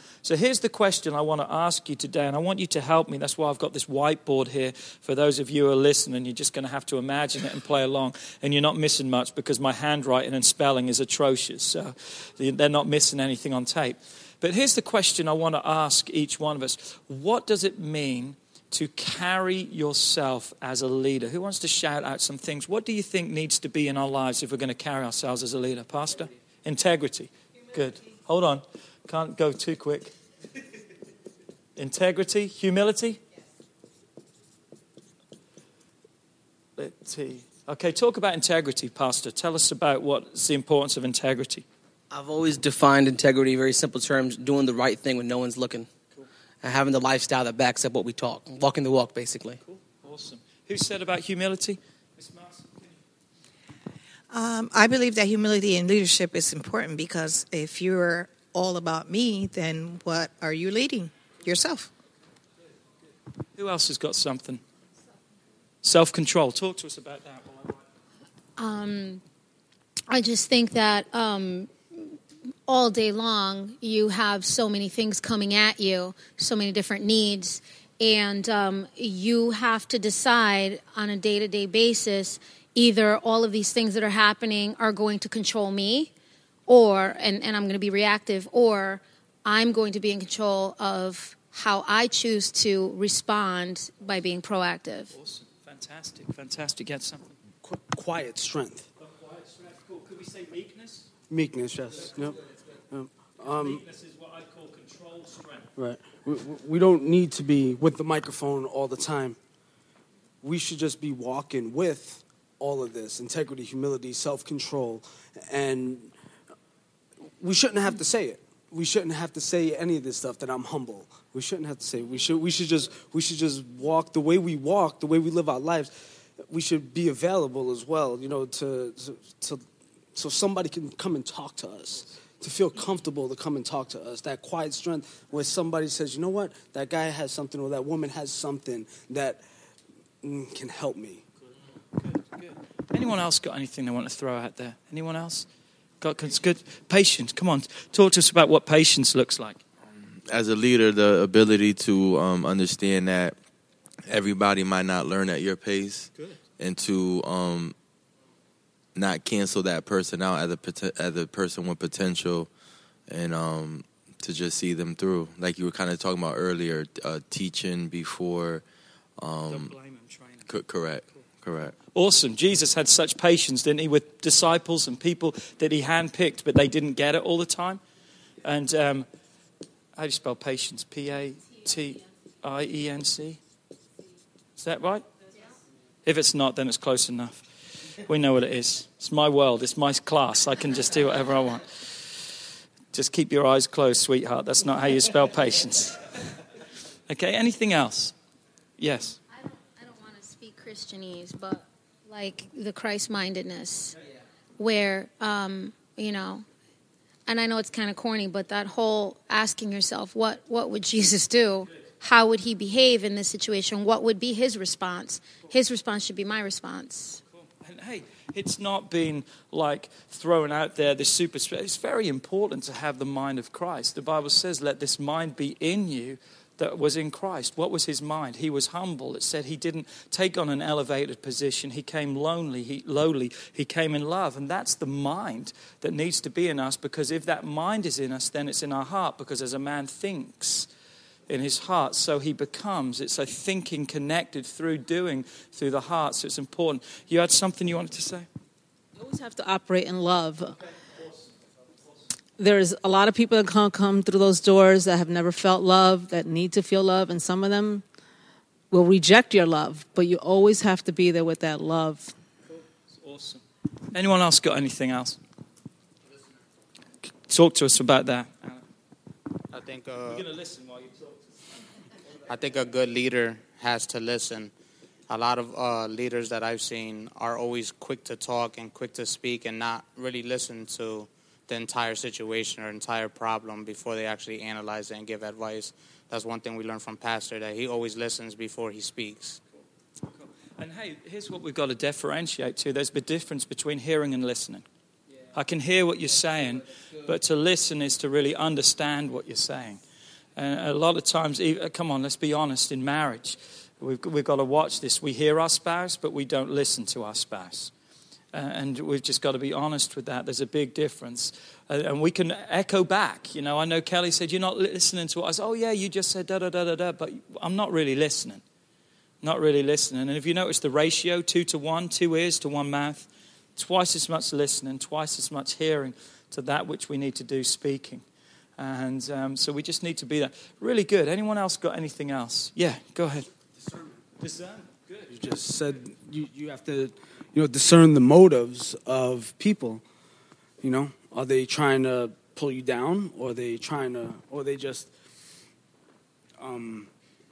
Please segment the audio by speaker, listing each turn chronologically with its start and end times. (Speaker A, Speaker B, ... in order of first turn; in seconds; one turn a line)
Speaker A: 0.2-30.1
Speaker A: 31.8-33.2
Speaker A: 36.8-41.6
Speaker B: 42.1-45.9
Speaker B: 46.6-49.6
Speaker A: 49.6-52.8
Speaker C: 54.3-61.9
Speaker A: 63.6-64.6
Speaker A: 65.8-67.7
Speaker D: 68.6-69.2
Speaker D: 70.1-71.7
Speaker D: 72.7-86.1
Speaker D: 86.7-95.1
Speaker A: 95.1-97.3
Speaker E: 97.6-98.9
Speaker A: 99.0-101.1
Speaker E: 101.3-102.4
Speaker E: 102.9-103.8
Speaker A: 103.5-105.7
Speaker E: 105.8-109.4
Speaker E: 110.4-116.1
Speaker E: 117.4-139.4
Speaker E: 140.2-141.3
Speaker A: 142.0-145.5
Speaker A: 146.0-149.6
Speaker F: 149.9-153.4
Speaker F: 154.1-157.8
Speaker F: 159.0-162.5
Speaker F: 163.1-168.6
Speaker F: 169.2-169.7
Speaker A: 169.5-170.5
Speaker F: 170.5-171.8
Speaker A: 171.9-177.8
Speaker A: 178.4-179.1
Speaker A: 180.0-183.4
Speaker A: 184.6-185.1
Speaker A: 186.1-187.5
Speaker A: 188.1-191.7
Speaker A: 192.9-196.1
Speaker A: 197.1-198.1
Speaker A: 198.8-199.2
Speaker D: 199.4-204.0
Speaker D: 204.6-206.4
Speaker D: 207.3-217.2
Speaker A: 217.5-240.7
Speaker A: 241.3-248.3
Speaker G: 249.0-250.6
Speaker G: 252.4-257.8
Speaker G: 258.7-262.1
Speaker A: 263.0-265.2
Speaker A: 267.3-268.6
Speaker H: 269.5-270.3
Speaker A: 270.1-271.2
Speaker H: 272.3-274.5
Speaker H: 275.1-289.4
Speaker A: 290.2-294.6
Speaker A: 295.3-299.8
Speaker A: 300.4-307.7
Speaker A: 308.3-318.4
Speaker A: 319.2-328.0
Speaker A: 328.6-333.3
Speaker A: 334.2-335.1
Speaker E: 335.1-339.8
Speaker E: 340.6-344.9
Speaker E: 346.4-346.9